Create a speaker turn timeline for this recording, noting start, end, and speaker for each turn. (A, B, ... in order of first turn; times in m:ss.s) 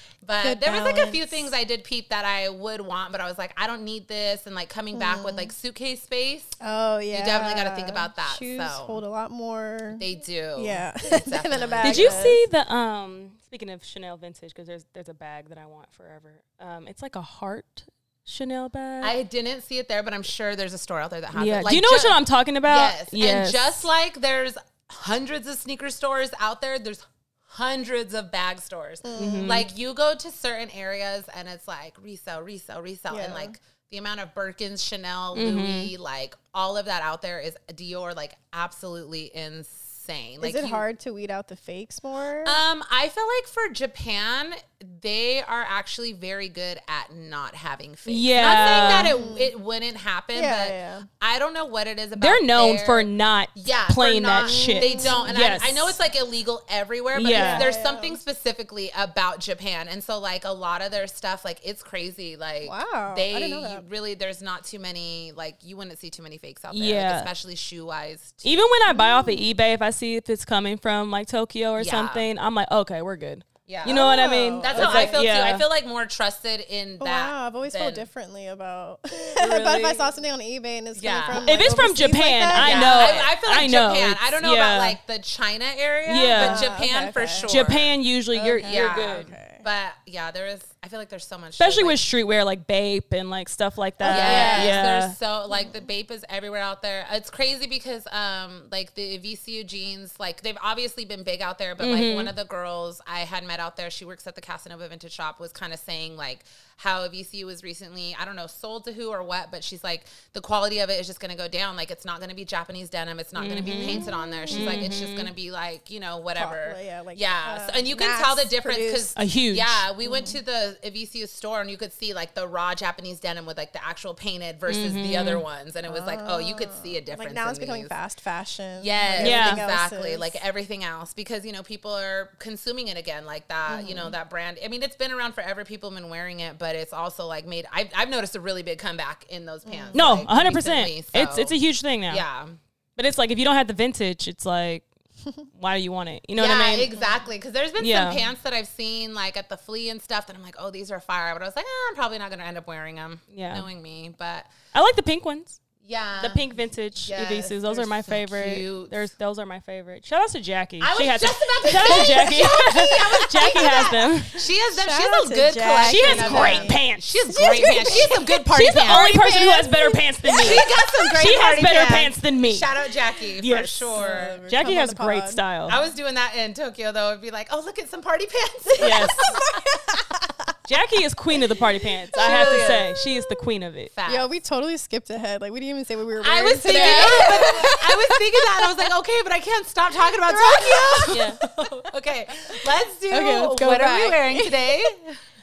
0:00.2-0:06.6 A
0:00.4-0:01.5 B
0:04.9-0:05.5 B
0:06.6-0:10.0 B
0:07.1-0:09.0 A
0:10.0-0:12.3 A
0:10.6-0:12.4 B
0:11.8-0:19.1 C
0:19.0-0:40.8 A
0:21.3-0:23.9 C
0:29.0-0:29.6 B
0:29.2-0:29.6 C
0:33.1-0:33.5 B
0:35.3-0:35.9 C
0:40.4-0:42.6 B
0:42.4-1:08.6 A
0:48.0-0:49.1 C
0:48.9-0:49.5 B
0:50.3-0:51.1 B
0:52.2-0:56.0 C
0:54.4-0:55.6 B
0:57.1-0:57.7 C
0:57.3-0:58.2 B
1:02.6-1:03.8 B
1:06.7-1:07.3 C
1:08.4-1:15.6 C
1:08.9-1:09.4 B
1:11.8-1:12.3 A
1:13.6-1:18.1 A
1:13.8-1:15.2 B
1:17.0-1:23.2 B
1:19.4-1:20.1 C
1:20.9-1:21.5 A
1:21.3-1:25.0 C
1:22.6-1:28.0 A
1:26.0-1:26.7 C
1:26.3-1:27.6 B
1:27.5-1:29.2 C
1:28.3-1:29.6 B
1:28.6-1:32.0 A
1:31.6-1:35.1 C
1:34.0-1:34.8 B
1:34.1-2:07.9 A
1:35.5-1:35.8 B
1:41.8-1:42.3 C
1:53.4-1:55.3 C
1:53.8-1:54.8 B
1:56.4-1:59.2 B
1:59.2-1:59.8 C
2:00.0-2:00.4 B
2:04.7-2:05.4 C
2:05.9-2:10.4 B
2:08.8-2:21.5 A
2:09.2-2:09.6 C
2:13.7-2:14.1 B
2:19.6-2:20.2 B
2:19.9-2:22.2 C
2:22.1-2:22.6 A
2:23.0-2:24.8 C
2:25.5-2:26.9 C
2:26.4-2:34.5 A
2:27.8-2:28.2 C
2:33.3-2:33.7 C
2:34.7-2:35.6 C
2:35.8-2:36.4 A
2:36.2-2:44.4 C
2:37.0-2:39.1 A
2:40.8-2:49.2 A
2:41.6-2:50.8 B
2:45.8-2:47.2 C
2:47.9-2:52.7 C
2:50.4-2:54.4 A
2:53.4-2:55.8 C
2:53.9-2:55.4 B
2:55.7-2:59.6 A
2:58.7-3:00.5 B
2:58.8-2:59.4 C
3:00.7-3:03.9 C
3:02.1-3:03.4 B
3:02.1-3:02.9 A
3:03.9-3:04.2 A
3:04.0-3:08.7 B
3:06.2-3:15.2 A
3:06.7-3:07.4 C
3:10.2-3:11.5 B
3:11.1-3:11.4 C
3:13.1-3:14.9 B